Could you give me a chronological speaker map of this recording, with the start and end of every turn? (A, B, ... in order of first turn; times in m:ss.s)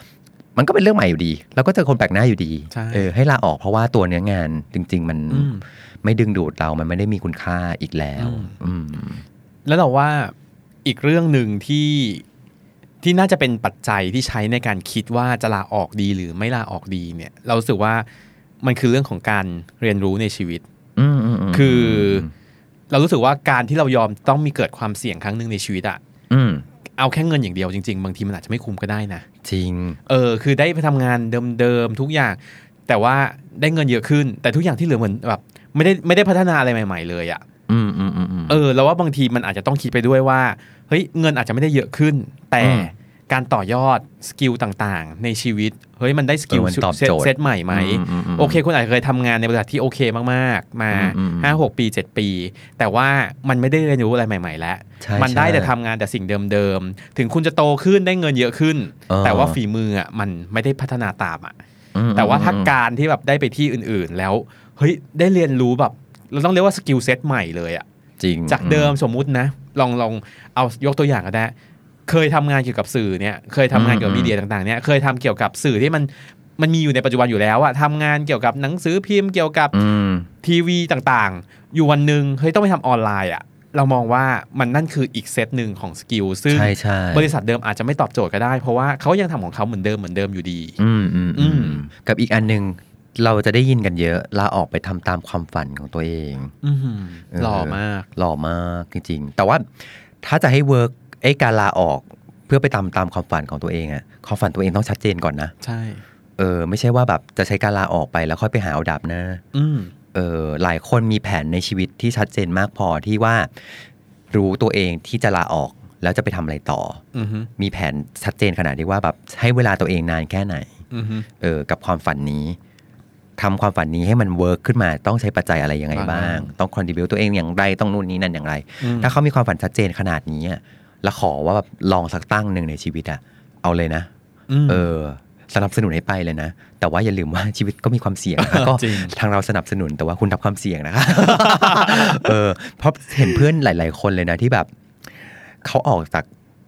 0:00.6-0:09.2 A
0:02.7-0:03.1 B
0:05.3-0:05.6 B
0:08.2-0:08.5 B
0:09.6-0:10.3 B
0:10.8-0:12.2 B
0:13.0-0:18.1 B
0:18.6-0:20.6 B
0:21.0-0:22.3 A
0:21.5-0:22.3 B
0:22.9-0:26.0 B
0:26.3-0:26.6 A
0:27.0-0:29.2 B
0:29.4-0:30.0 A
0:30.1-0:37.4 B
0:37.7-0:38.6 A
0:38.5-1:01.6 B
0:42.6-0:42.9 A
0:46.5-0:48.6 A
0:50.9-0:51.6 A
0:55.0-0:55.7 A
0:59.1-0:59.6 A
1:01.9-1:02.7 A
1:02.1-1:07.8 B
1:08.2-1:08.9 A
1:08.5-1:11.5 B
1:12.1-1:19.8 B
1:13.7-1:14.3 A
1:19.7-1:20.3 A
1:20.4-1:30.8 B
1:26.5-1:27.3 A
1:30.8-1:36.5 A
1:31.3-1:31.8 B
1:36.6-1:38.1 B
1:37.3-1:39.7 A
1:40.2-1:45.5 A
1:45.6-1:46.0 B
1:46.4-1:49.4 A
1:49.5-1:49.9 B
1:50.1-1:57.0 A
1:57.1-1:57.5 B
1:57.6-2:00.7 A
2:00.9-2:01.2 B
2:01.4-2:02.6 A
2:03.4-2:14.1 A
2:05.9-2:06.5 B
2:08.8-2:09.1 B
2:14.5-2:14.8 B
2:14.7-2:24.7 A
2:18.4-2:19.1 B
2:21.2-2:22.3 B
2:25.6-2:26.3 A